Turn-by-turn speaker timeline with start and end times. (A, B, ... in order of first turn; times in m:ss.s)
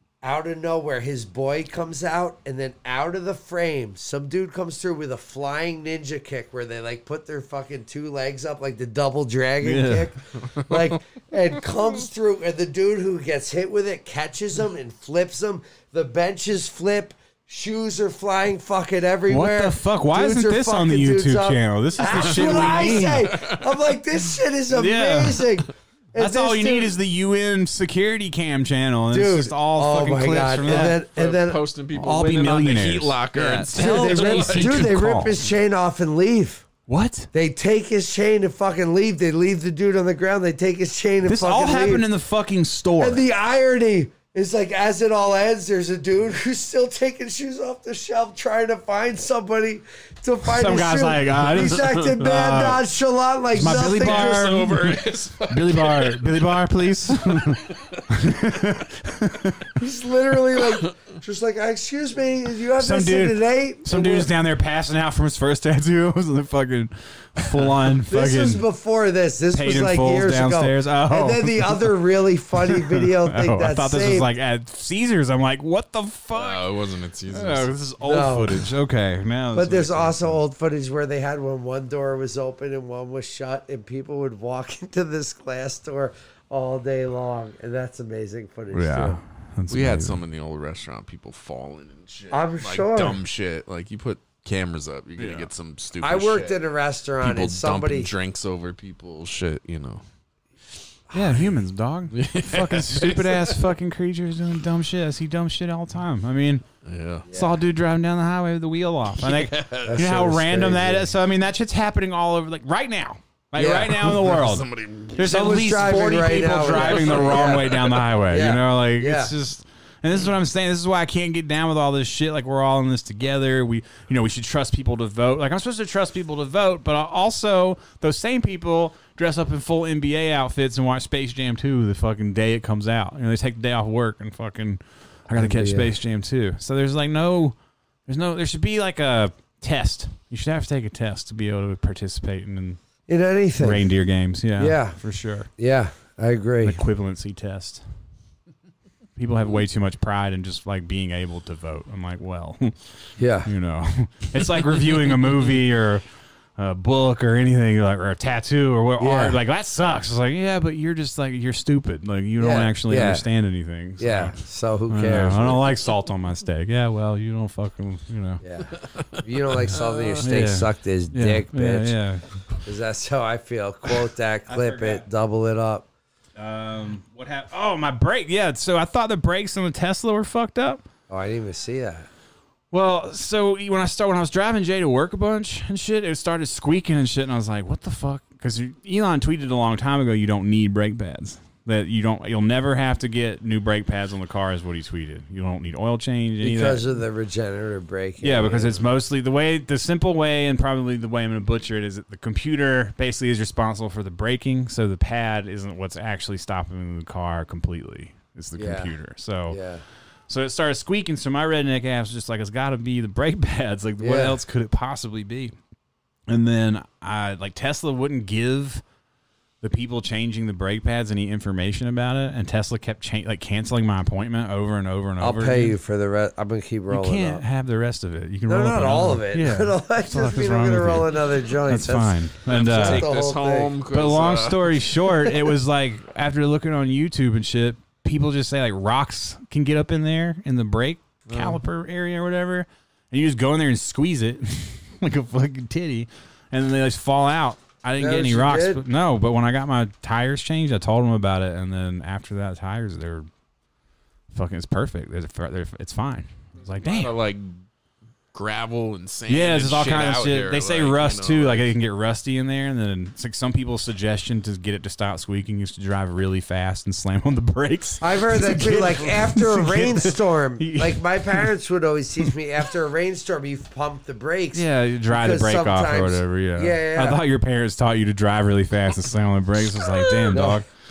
0:00.2-0:27.0 A
0:09.6-0:10.1 B
0:19.3-0:23.3 B
0:22.0-0:23.8 C
0:24.7-0:25.5 B
0:26.2-0:31.0 B
0:29.1-0:31.7 A
0:30.7-0:34.9 C
0:32.0-0:35.4 B
0:33.7-0:36.7 A
0:36.9-0:37.3 B
0:37.3-0:42.1 A
0:41.3-0:43.2 B
0:43.0-0:54.7 A
0:50.4-0:52.8 B
0:53.5-0:59.7 B
0:53.6-0:56.5 C
0:57.3-0:58.0 C
0:59.8-1:04.3 A
1:02.8-1:08.6 B
1:08.1-1:14.3 A
1:09.5-1:12.0 B
1:12.7-1:16.7 B
1:16.3-1:17.7 C
1:17.3-1:20.4 B
1:18.0-1:18.7 A
1:19.5-1:29.2 A
1:28.7-1:30.2 B
1:29.7-1:36.6 C
1:32.3-1:33.2 A
1:35.2-1:35.5 B
1:36.0-1:38.1 A
1:37.2-1:40.0 C
1:41.1-1:46.6 B
1:42.1-1:43.6 C
1:46.8-1:47.3 C
1:47.3-1:47.6 A
1:47.3-2:17.6 B
1:49.2-1:50.0 C
1:49.9-1:51.1 A
1:53.6-1:54.2 A
1:54.0-1:55.5 C
1:55.2-1:59.3 A
1:56.7-1:58.0 C
2:15.4-2:15.9 A
2:18.1-2:22.8 B
2:23.1-2:23.9 A
2:23.6-2:25.5 B
2:24.6-2:25.0 A
2:25.6-2:26.8 A
2:26.6-2:27.8 B
2:29.2-2:32.7 B
2:33.2-2:33.5 A
2:33.4-2:36.0 B
2:36.6-2:44.4 B
2:39.0-2:39.4 A
2:42.4-2:43.2 A
2:44.0-2:45.7 A
2:44.9-2:48.4 B
2:48.4-2:52.0 A
2:48.8-2:50.3 C
2:50.2-2:52.2 B
2:52.6-2:55.8 A
2:54.5-2:55.0 B
2:56.4-3:00.8 B
3:01.1-3:02.1 A
3:02.7-3:16.9 B
3:16.4-3:18.9 A
3:18.2-3:29.6 B
3:28.6-3:28.9 A
3:29.5-3:29.8 A
3:30.3-3:35.6 B
3:34.0-3:34.4 A
3:36.3-3:38.8 B
3:39.6-3:45.8 B
3:45.2-3:47.4 A
3:46.9-3:53.1 B
3:48.5-3:53.7 A
3:52.5-3:55.5 C
3:53.9-4:13.3 B
4:01.3-4:01.6 C
4:08.0-4:08.8 A
4:14.3-4:17.1 B
4:16.8-4:17.6 C
4:18.3-4:21.7 C
4:19.3-4:31.5 B
4:28.0-4:37.2 A
4:34.5-4:40.7 B
4:40.3-4:40.6 A